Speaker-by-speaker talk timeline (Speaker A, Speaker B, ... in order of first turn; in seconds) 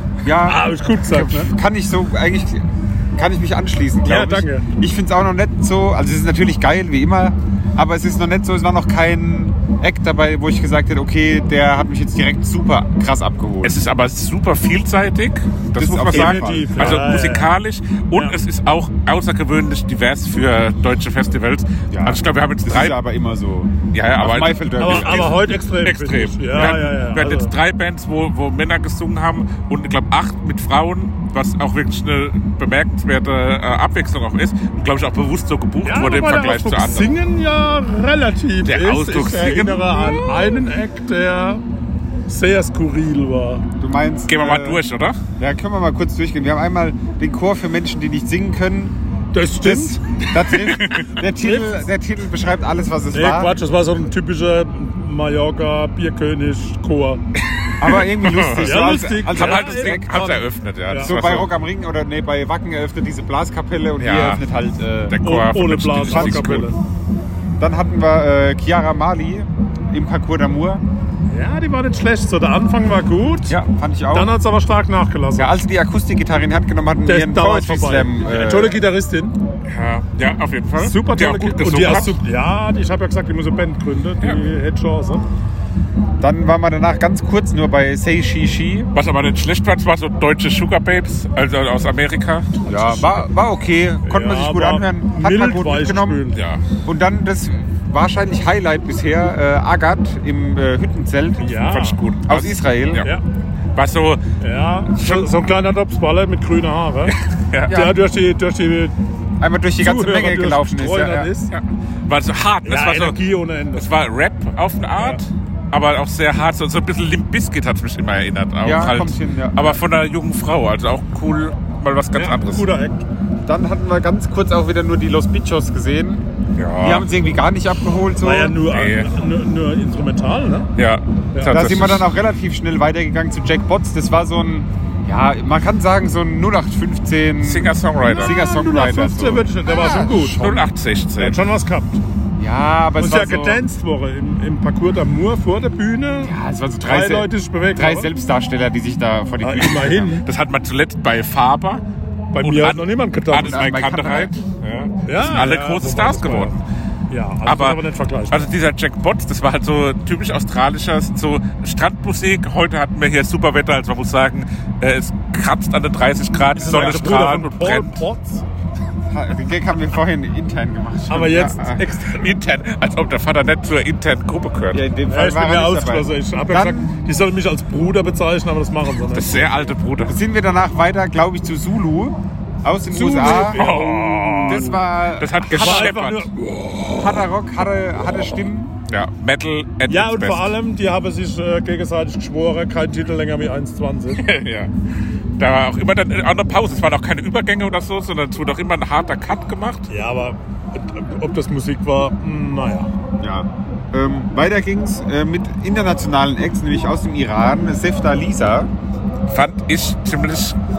Speaker A: 0.2-2.6, 3.2-13.8, 15.8-17.0, 21.9-25.5, 43.8-44.8, 45.4-49.0, 49.6-53.6, 57.8-60.2, 61.0-65.2, 66.1-66.7, 67.6-70.8, 73.5-74.3, 75.3-78.8, 86.2-88.9, 92.7-96.2, 96.8-101.6, 102.3-103.0, 109.4-111.3, 118.6-119.8, 123.4-126.2, 126.8-128.6, 131.5-139.5, 142.4-143.7, 146.2-150.2, 153.4-154.3, 169.1-171.8, 174.7-176.9, 180.1-183.6, 184.4-185.9, 186.9-188.7, 203.2-208.7
Speaker B: 0.5-1.5, 4.0-4.7, 16.1-17.5, 24.8-27.5, 35.8-41.6, 42.3-43.6, 49.3-50.4, 51.4-51.8, 53.1-57.2, 58.5-61.1, 65.2-66.8, 71.3-73.5, 74.1-75.6, 77.0-79.3, 80.8-85.2, 92.7-93.1, 94.0-96.4, 101.4-102.0, 104.4-107.1, 107.7-108.9, 109.8-111.5, 112.6-113.9, 122.1-123.0, 128.1-130.7, 131.3-131.6, 138.0-142.0, 143.0-148.1, 149.4-150.2, 152.3-153.7, 155.0-156.6, 157.1-158.5, 166.5-168.4, 171.1-172.3, 175.1-179.5, 182.9-184.8, 185.5-187.3, 189.8-194.2, 199.9-202.9
Speaker C: 13.6-22.9, 23.9-37.1, 38.6-40.5, 44.3-45.2, 50.5-51.1, 57.8-61.5, 64.0-64.5, 65.1-66.7, 79.6-82.2, 88.9-93.1, 96.3-96.6, 101.7-103.1, 103.8-104.2, 104.9-105.3, 107.0-107.8, 111.5-113.2, 113.8-122.7, 126.5-127.1, 128.7-129.1, 130.8-132.1, 137.4-138.4, 139.7-141.4, 150.2-151.8, 152.4-156.6, 157.4-168.0, 172.0-174.8, 179.1-180.2, 183.2-186.3, 188.9-190.6, 194.1-194.7, 195.4-199.8, 209.3-210.6